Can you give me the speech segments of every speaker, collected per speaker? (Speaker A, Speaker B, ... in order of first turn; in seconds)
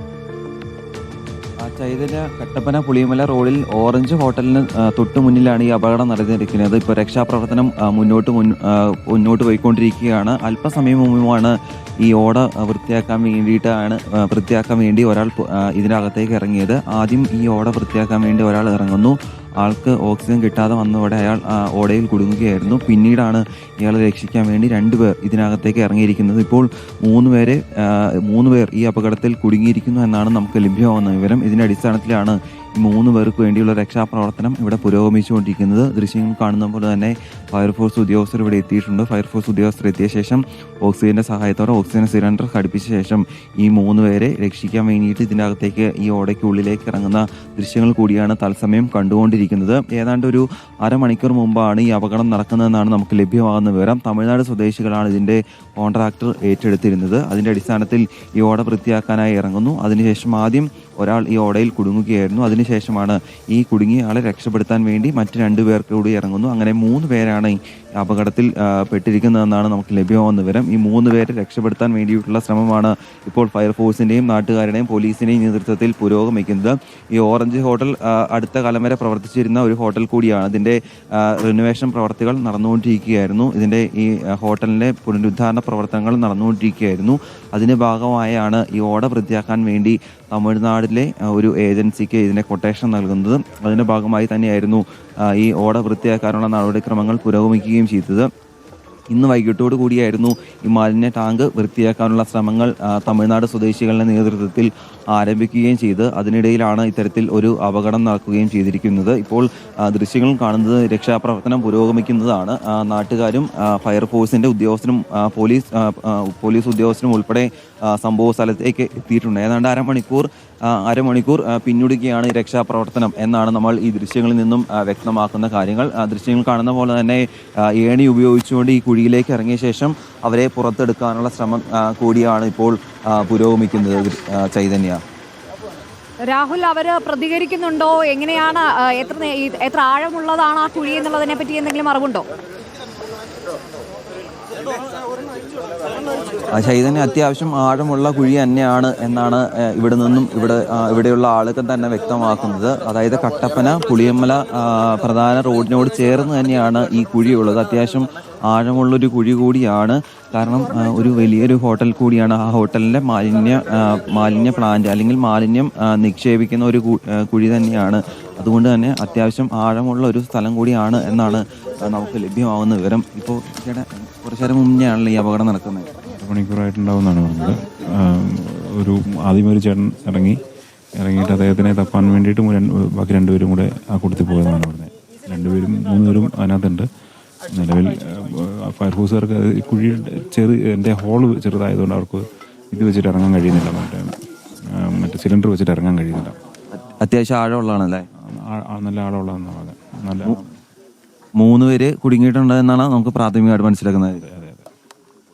Speaker A: 1.6-98.3, 99.1-135.0, 146.5-175.9, 197.0-198.0, 201.4-204.2
Speaker B: 136.3-142.2
Speaker C: 176.1-180.4, 181.0-186.9, 187.5-194.1, 194.7-196.4, 198.3-200.4, 204.1-204.7